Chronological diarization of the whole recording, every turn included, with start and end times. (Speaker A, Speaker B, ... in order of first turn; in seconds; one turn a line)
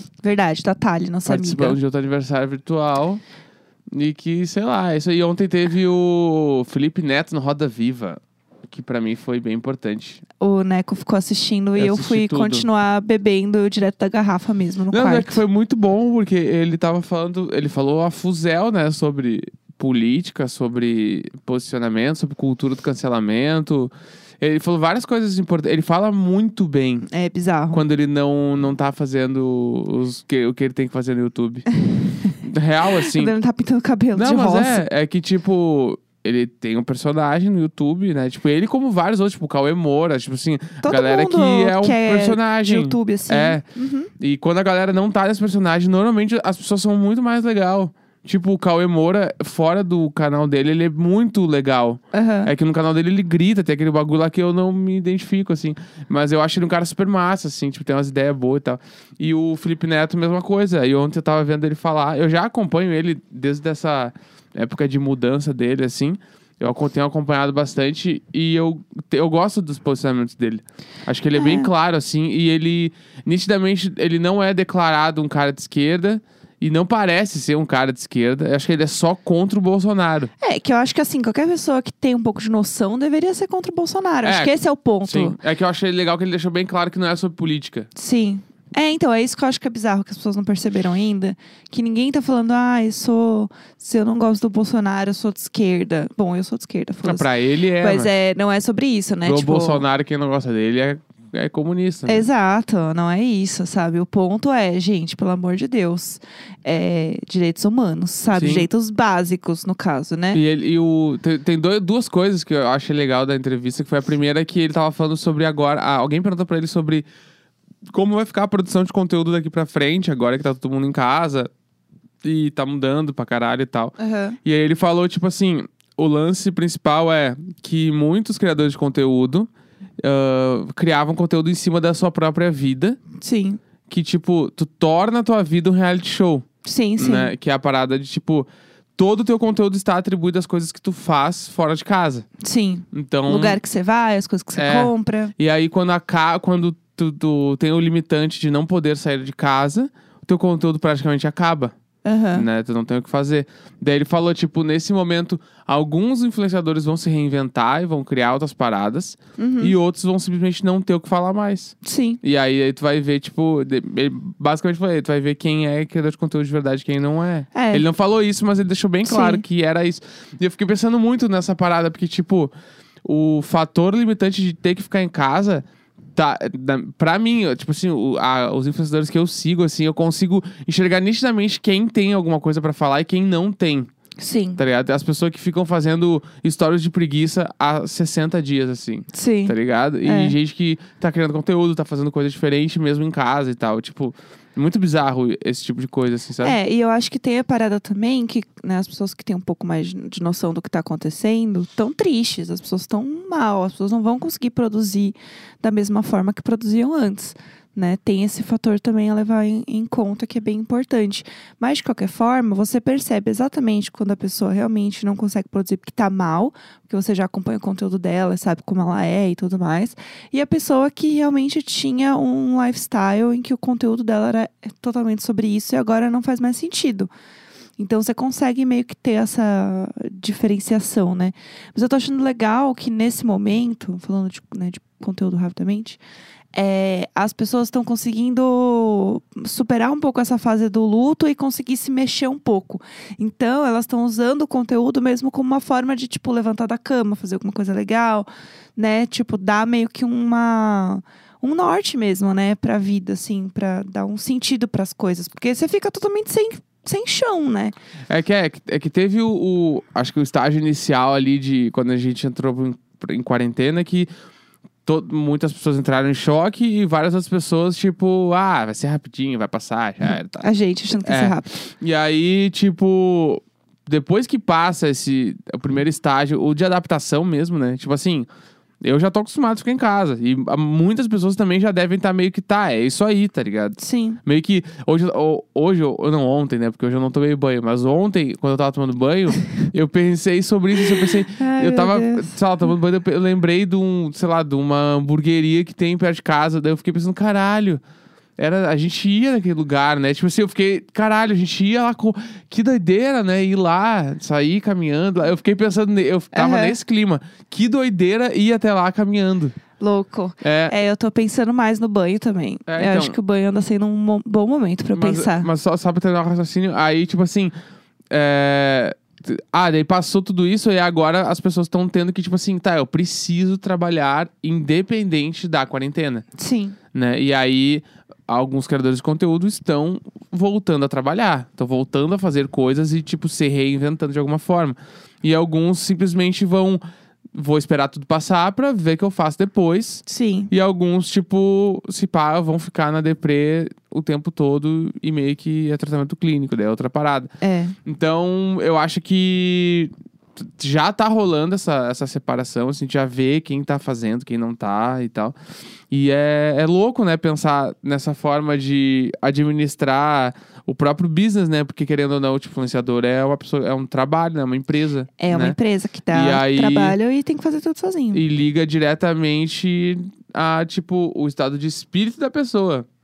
Speaker A: 0.2-1.8
Speaker B: 1.3-3.2
Speaker B: 3.9-10.2
Speaker A: 10.4-15.4
Speaker B: 11.8-12.7
Speaker B: 14.9-27.1
Speaker A: 27.1-27.8
Speaker B: 27.7-31.6
Speaker A: 31.9-32.2
Speaker B: 32.4-33.3
Speaker A: 33.0-34.8
Speaker B: 34.1-43.6
Speaker A: 40.8-44.1
Speaker B: 44.2-80.3
Speaker A: 52.1-52.5
Speaker A: 71.3-71.7
Speaker A: 80.4-85.4
Speaker B: 84.2-84.5
Speaker B: 85.0-87.9
Speaker A: 88.0-97.3
Speaker B: 97.0-98.1
Speaker A: 97.8-99.8
Speaker B: 99.2-102.3
Speaker A: 102.1-110.4
Speaker B: 108.3-108.7
Speaker B: 110.3-117.1
Speaker B: 117.9-121.5
Speaker B: 122.2-129.5
Speaker A: 124.0-124.4
Speaker B: 130.0-133.0
Speaker A: 133.2-133.6
Speaker B: 133.9-136.4
Speaker A: 136.6-137.3
Speaker B: 137.0-142.2
Speaker A: 142.4-145.3
Speaker B: 142.9-143.6
Speaker B: 144.6-151.7
Speaker A: 152.0-152.5
Speaker B: 152.3-172.5
Speaker A: 159.4-159.8
Speaker A: 161.8-162.2
Speaker A: 167.5-167.8
Speaker A: 169.1-169.4
Speaker B: 173.1-175.6
Speaker B: 176.2-183.9
Speaker A: 184.2-184.6
Speaker B: 184.6-196.6
Speaker A: 189.1-190.4
Speaker A: 196.4-227.1
Speaker A: 227.8-236.0
Speaker A: 236.5-257.7
Speaker B: 258.1-264.1
Speaker B: 264.9-270.5
Speaker A: 270.4-271.6
Speaker B: 271.0-278.3
Speaker B: 278.8-297.8
Speaker A: 283.8-284.2
Speaker A: 291.4-292.3
Speaker B: 298.4-309.6
Speaker A: 306.3-306.8
Speaker A: 309.8-315.5
Speaker B: 310.4-310.8
Speaker B: 312.7-313.2
Speaker B: 314.9-317.5
Speaker B: 318.1-326.2
Speaker A: 326.4-326.8
Speaker B: 326.9-336.8
Speaker B: 337.3-347.3
Speaker A: 340.1-340.5
Speaker A: 347.4-347.8
Speaker B: 347.9-355.3
Speaker B: 355.9-365.6
Speaker A: 365.2-368.2
Speaker B: 366.1-367.0
Speaker B: 368.1-372.9